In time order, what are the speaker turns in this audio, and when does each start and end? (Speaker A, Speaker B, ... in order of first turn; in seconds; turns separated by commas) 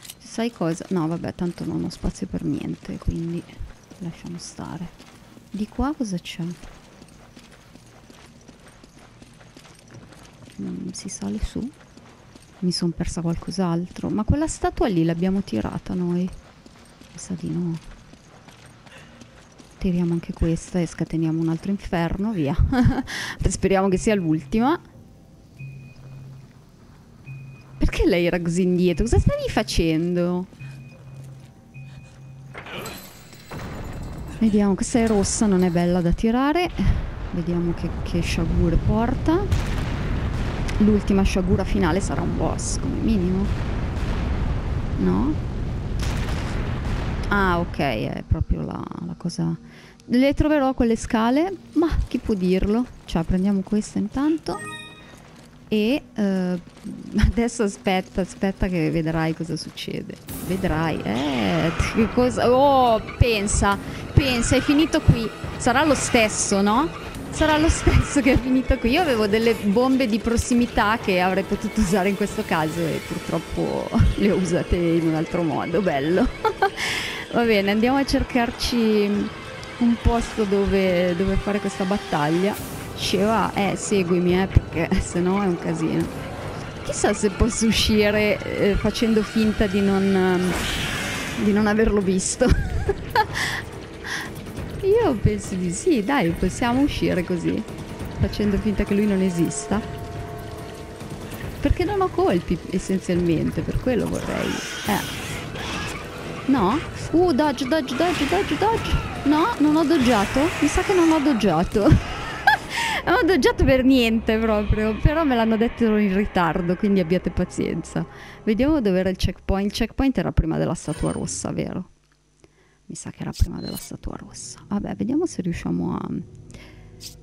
Speaker A: 0.2-4.9, Speaker A: 5.5-6.6, Speaker A: 10.6-11.7, Speaker A: 12.6-16.3, Speaker A: 17.1-17.8, Speaker A: 19.8-24.8, Speaker A: 27.8-30.5, Speaker A: 34.4-39.6, Speaker A: 40.8-43.5, Speaker A: 45.0-45.4, Speaker A: 47.3-54.6, Speaker A: 55.7-86.2, Speaker A: 86.8-90.6, Speaker A: 91.4-94.2, Speaker A: 94.8-99.9, Speaker A: 101.6-105.1, Speaker A: 106.5-121.9, Speaker A: 122.9-126.3